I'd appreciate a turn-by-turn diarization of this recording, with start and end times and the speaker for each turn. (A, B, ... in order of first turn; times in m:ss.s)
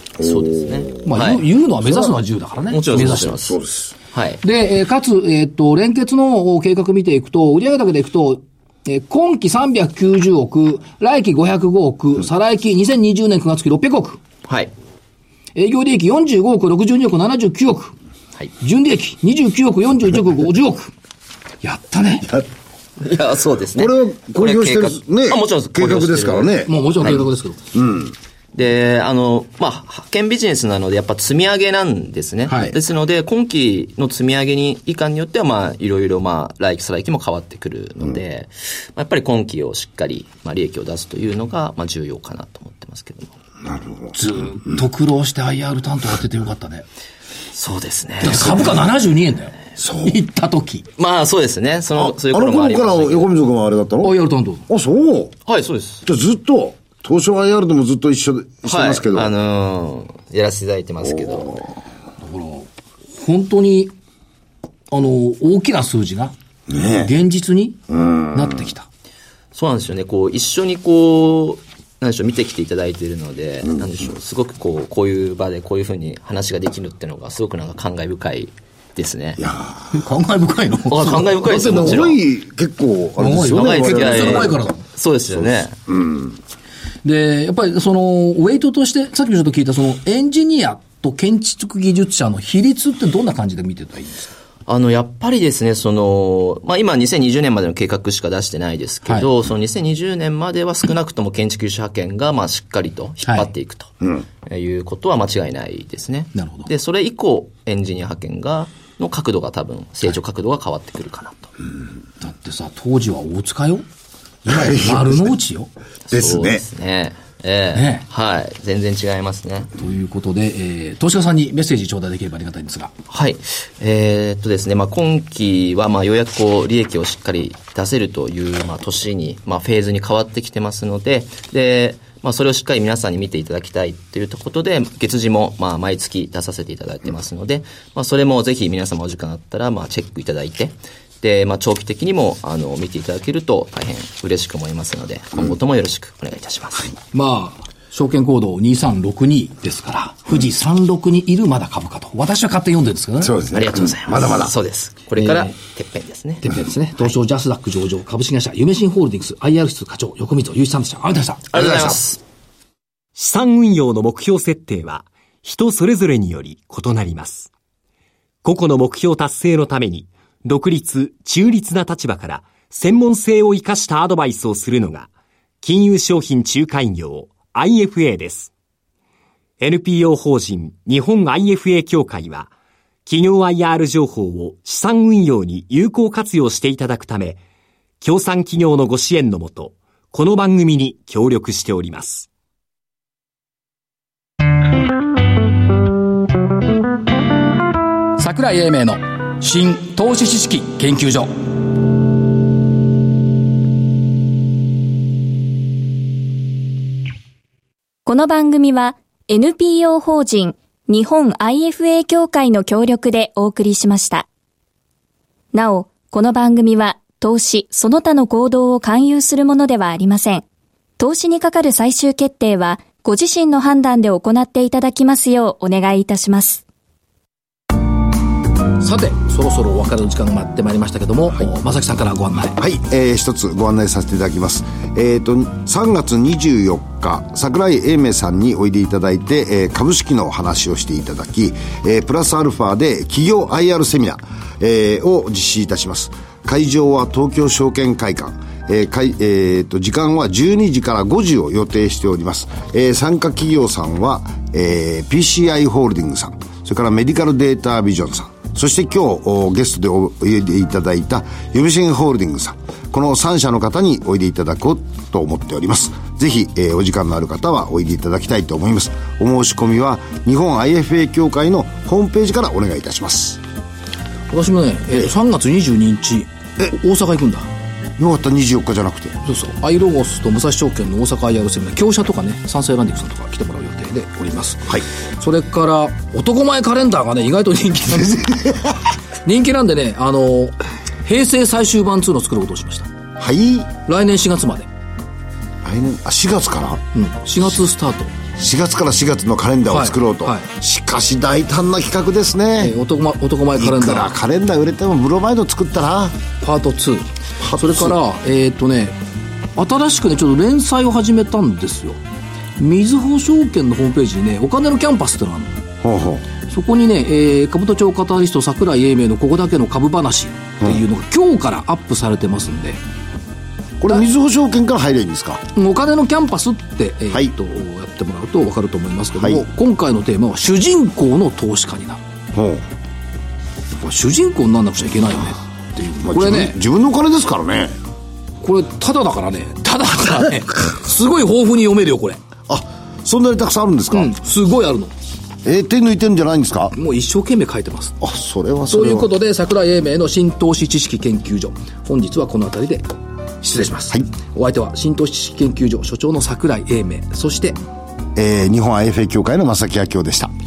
0:00.2-0:01.0 A
0:00.2-0:01.4 B
0:01.0-0:03.4 C
0:02.7-0:03.6 B
0:03.1-0:03.9 A
0:04.1-0:04.4 B
0:04.4-0:14.2 C
0:14.5-0:14.7 B
0:15.5-0:17.9 C
0:18.6-0:20.9 C
0:21.6-0:22.4 C
0:23.0-0:27.2 B
0:23.8-0:26.7 A
0:26.6-0:27.6 C
0:27.7-0:28.1 A
0:28.5-0:43.3 B
0:32.5-0:32.7 C
0:43.6-0:44.1 A
0:44.1-0:46.8 C
0:47.5-0:48.8 B
0:48.2-0:50.8 C
0:49.8-0:50.2 A
0:51.0-0:53.3 B
0:52.0-0:54.2 A
0:54.0-0:54.7 C
0:54.7-0:55.3 A
0:55.5-0:56.0 B
0:56.0-0:59.3 A
0:58.6-1:01.6 B
1:02.2-1:03.9 C
1:04.9-1:06.3 C
1:06.7-1:07.1 A
1:06.9-1:07.8 C
1:07.9-1:08.6 A
1:08.3-1:08.9 C
1:09.5-1:19.4 B
1:19.4-1:20.0 A
1:19.9-1:22.0 C
1:20.9-1:22.2 B
1:21.4-1:24.6 A
1:23.2-1:24.8 C
1:23.5-1:25.8 B
1:25.9-1:26.4 A
1:27.0-1:34.3 C
1:34.7-1:51.5 B
1:46.3-1:46.7 C
1:52.2-1:53.8 C
1:54.4-1:55.7 C
1:54.5-1:55.2 A
1:56.1-1:59.7 B
1:56.1-1:56.6 A
1:57.7-1:58.0 C
1:59.8-2:02.9 C
2:03.1-2:27.0 B
2:27.1-2:33.3 C
2:33.2-2:34.5 A
2:33.5-2:37.1 B
2:35.2-2:35.5 C
2:36.4-2:42.0 C
2:41.5-2:42.2 B
2:43.2-2:47.5 D
2:48.4-2:55.1 D
2:55.6-2:58.5 D
2:59.6-3:02.5 D
3:03.0-3:07.4 D
3:08.0-3:12.3 D
3:18.2-3:21.3 C
3:28.0-3:34.2 E
3:35.5-3:40.4 E
3:41.0-3:46.6 E
3:48.8-3:52.6 C
3:52.6-4:33.4 A
4:34.3-4:37.5 C
4:38.0-4:39.2 A
4:39.2-4:48.6 C
4:48.3-4:48.7 A
4:49.2-4:52.9 C
4:53.2-4:53.7 A
4:53.8-4:54.7 C
4:55.6-4:56.8 A
4:56.9-4:58.1 C
4:58.4-5:02.8 A
4:59.7-5:00.5 C
5:02.6-5:04.1 C
5:03.6-5:06.2 A
5:06.4-5:09.0 C
5:07.4-5:08.0 A
5:09.6-5:12.0 C
5:12.6-5:15.6 C
5:15.8-5:16.2 A
5:16.5-5:22.8 C
5:23.8-5:25.4 A
5:25.5-5:32.0 C
5:29.2-5:29.4 A
5:32.3-5:32.6 A
5:33.8-5:36.6 C
5:36.0-5:37.8 A
5:38.4-5:42.2 C
5:42.5-5:44.1 A
5:43.9-5:44.9 C
5:45.4-5:46.7 A
5:46.7-5:48.0 C
5:48.0-5:49.1 A
5:48.7-5:52.9 C
5:53.4-5:57.6 C
5:58.1-6:00.3 A